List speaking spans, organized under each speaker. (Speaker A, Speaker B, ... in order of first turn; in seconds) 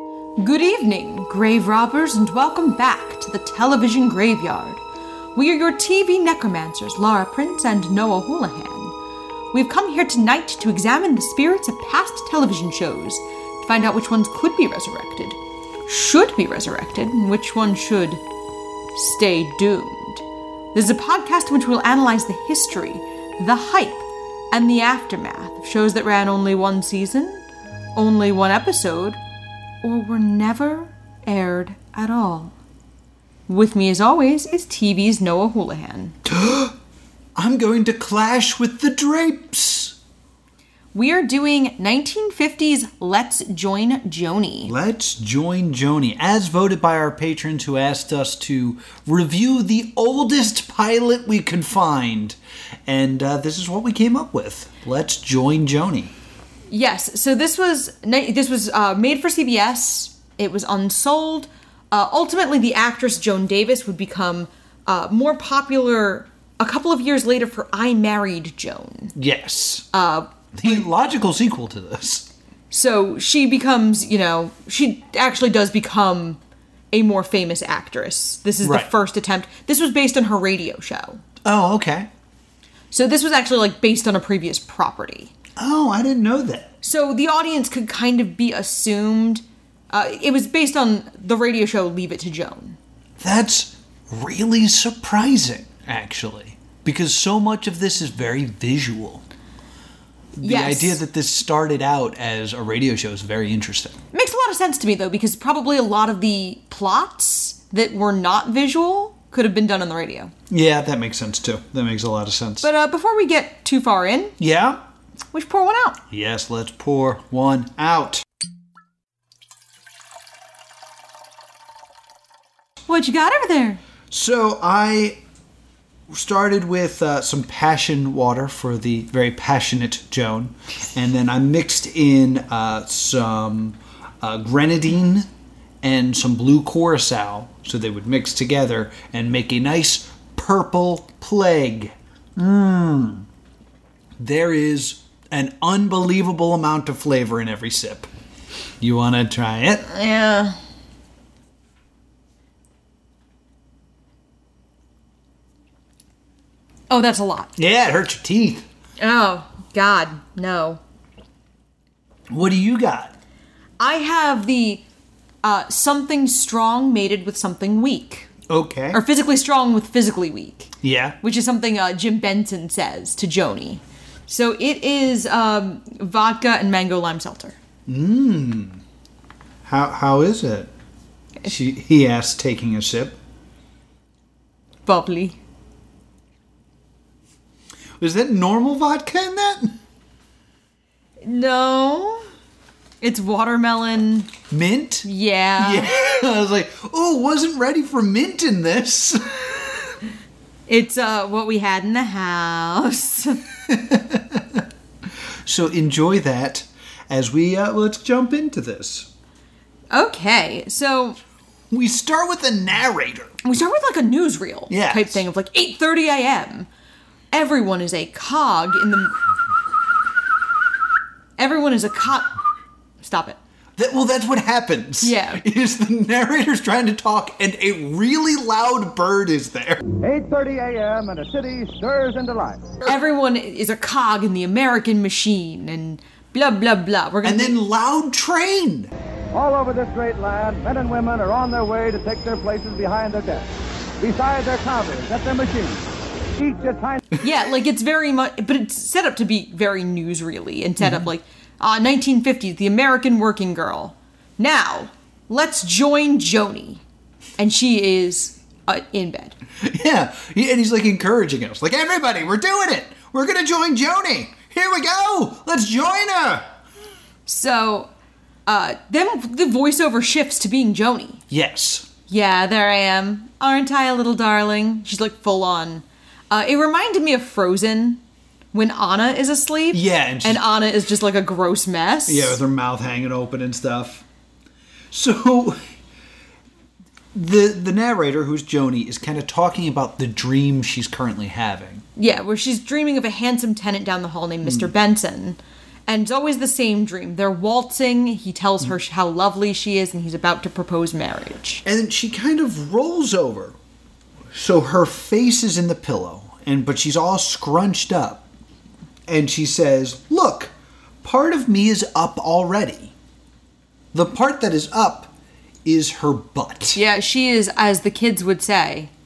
Speaker A: 0.4-4.8, 5.3-8.9, 9.5-18.2, 18.9-27.4, 27.9-29.2, 29.8-32.5, 33.5-36.1, 40.9-44.7, 56.7-69.1, 69.9-70.8, 72.7-76.4, 76.9-81.2, 82.9-85.3, 86.8-92.8, 100.4-101.0, 104.1-110.3, 112.6-114.3, 115.3-116.0, 122.9-123.8, 149.9-150.6, 156.9-157.5, 159.0-160.8, 163.8-164.8, 165.4-168.3, 168.9-177.5, 184.8-185.4, 191.2-192.2, 193.0-194.3, 195.0-195.9, 200.7-203.4, 209.9-211.2, 213.4-216.7, 217.3-219.1, 221.4-222.4, 223.0-223.4, 225.0-225.4, 232.8-237.6, 247.2-256.8, 257.4-259.4, 267.3-267.9, 268.4-271.2, 272.1-278.0, 278.5-282.4, 292.0-301.6, 316.8-318.9
Speaker B: 36.2-36.7, 37.4-40.0, 44.6-56.1, 69.1-69.9, 70.5-72.3, 78.6-78.9, 81.4-82.1, 85.6-86.7, 93.2-99.2, 100.4-104.0, 110.5-112.7, 114.4-114.8, 116.1-118.2, 124.1-125.2, 126.1-135.3, 135.8-143.2, 144.2-148.1, 148.8-149.9, 157.6-158.6, 162.3-163.1, 168.5-169.0, 170.8-171.2, 177.9-178.8, 179.6-180.7, 181.4-183.2, 188.0-189.8, 194.5-199.5, 203.7-204.6, 205.4-209.1, 211.7-213.3, 214.7-215.2, 223.8-229.8, 237.2-238.9, 250.8-251.1, 259.6-266.5, 271.3-271.9, 279.7-280.4, 282.1-284.0, 284.9-285.6, 287.1-291.8, 294.4-294.7, 301.6-303.6, 304.3-308.2, 309.1-310.5, 311.0-312.9, 313.9-315.1, 315.6-316.8
Speaker C: 230.0-232.7, 239.3-243.5, 244.0-247.0